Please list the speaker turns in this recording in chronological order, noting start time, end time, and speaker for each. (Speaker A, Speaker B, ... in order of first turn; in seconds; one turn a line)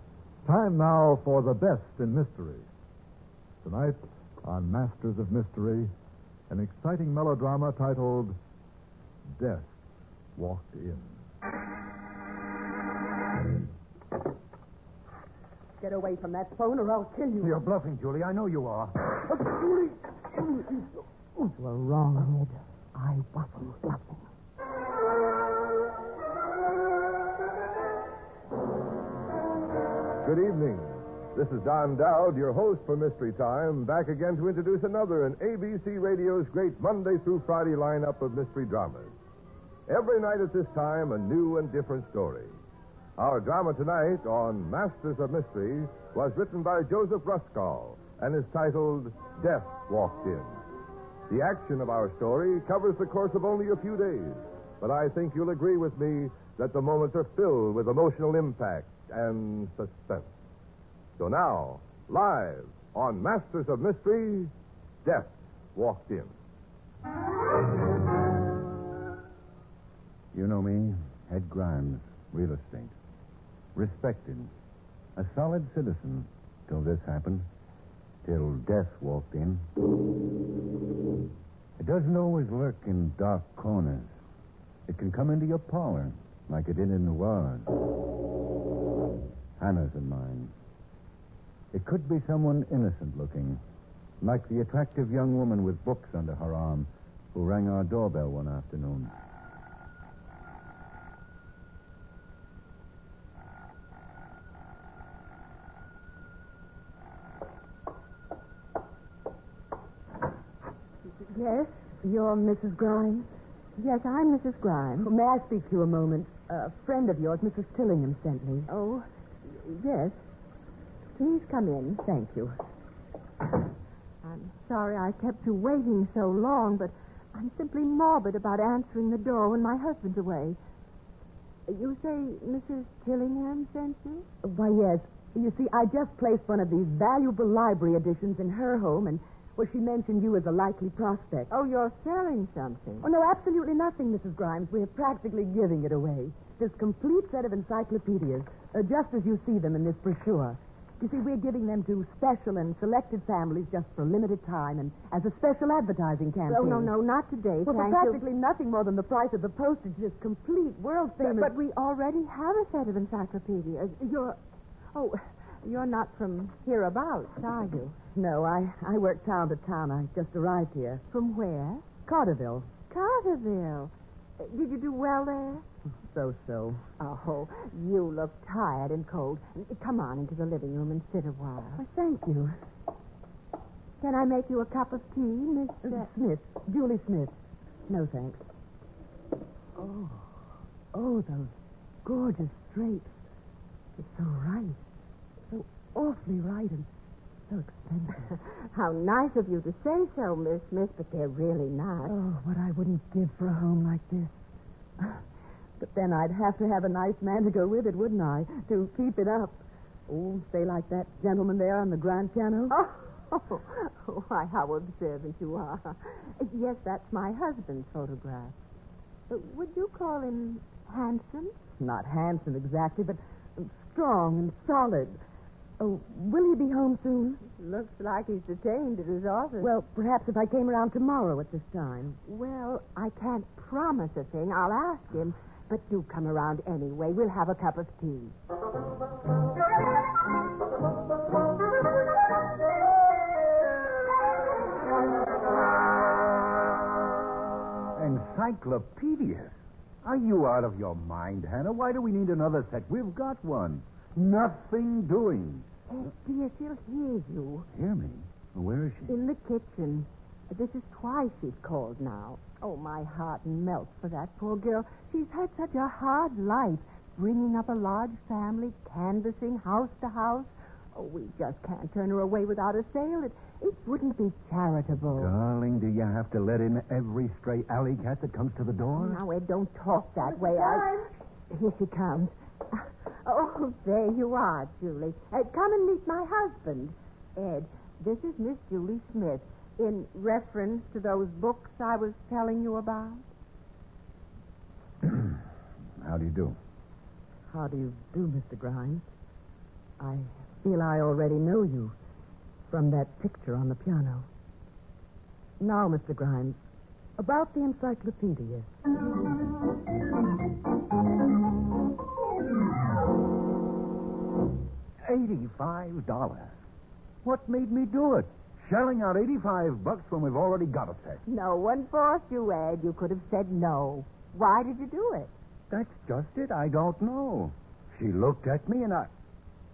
Speaker A: 0.4-2.7
Speaker A: 3.6-5.9
Speaker A: 6.5-8.3
Speaker A: 9.4-9.7
Speaker A: 10.3-11.1
Speaker B: 15.8-17.6
Speaker C: 17.4-19.2
Speaker B: 19.4-19.6
Speaker B: 21.5-24.2
Speaker D: 30.2-39.1
Speaker D: 39.9-42.6
Speaker D: 43.2-50.6
Speaker D: 51.3-60.3
Speaker D: 61.2-64.5
Speaker D: 65.0-66.3
Speaker C: 70.3-72.9
Speaker C: 73.7-74.5
Speaker C: 75.2-77.5
Speaker C: 78.2-79.7
Speaker C: 81.8-84.2
Speaker C: 84.9-87.8
Speaker C: 89.6-90.5
Speaker C: 91.7-93.6
Speaker C: 94.2-99.1
Speaker E: 111.2-111.7
Speaker B: 112.0-113.3
Speaker E: 113.8-115.1
Speaker B: 115.0-118.7
Speaker E: 118.7-120.2
Speaker E: 121.1-122.0
Speaker B: 122.0-122.5
Speaker E: 124.2-130.6
Speaker E: 131.7-134.3
Speaker B: 134.4-141.5
Speaker E: 141.5-143.1
Speaker B: 143.0-156.9
Speaker E: 156.4-158.2
Speaker B: 157.6-161.5
Speaker E: 161.2-164.4
Speaker E: 164.9-167.9
Speaker B: 168.1-171.0
Speaker E: 171.1-171.8
Speaker B: 172.0-172.7
Speaker E: 172.9-175.6
Speaker B: 176.1-176.8
Speaker E: 177.0-181.8
Speaker B: 181.8-182.6
Speaker E: 184.0-186.1
Speaker B: 185.8-187.3
Speaker B: 187.9-188.4
Speaker B: 189.8-190.3
Speaker B: 190.9-191.5
Speaker B: 192.0-193.1
Speaker B: 194.0-194.8
Speaker B: 195.5-196.9
Speaker B: 197.5-198.3
Speaker E: 198.3-202.1
Speaker B: 202.0-204.3
Speaker B: 205.8-212.8
Speaker E: 212.7-218.5
Speaker E: 219.3-221.5
Speaker B: 221.8-225.2
Speaker B: 225.8-227.4
Speaker E: 227.5-229.7
Speaker B: 229.6-232.2
Speaker E: 232.3-238.3
Speaker C: 247.9-255.7
Speaker E: 255.9-257.7
Speaker C: 257.7-259.1
Speaker E: 259.1-275.3
Speaker C: 275.1-279.2
Speaker E: 278.9-293.2
Speaker B: 280.2-281.1
Speaker C: 295.0-295.4
Speaker C: 296.0-296.6
Speaker B: 297.5-299.0
Speaker B: 300.0-301.9
Speaker B: 302.7-304.3
Speaker B: 305.6-306.6
Speaker B: 307.2-308.7
Speaker C: 315.0-316.6
Speaker C: 317.2-321.2
Speaker E: 321.3-325.3
Speaker C: 325.7-329.1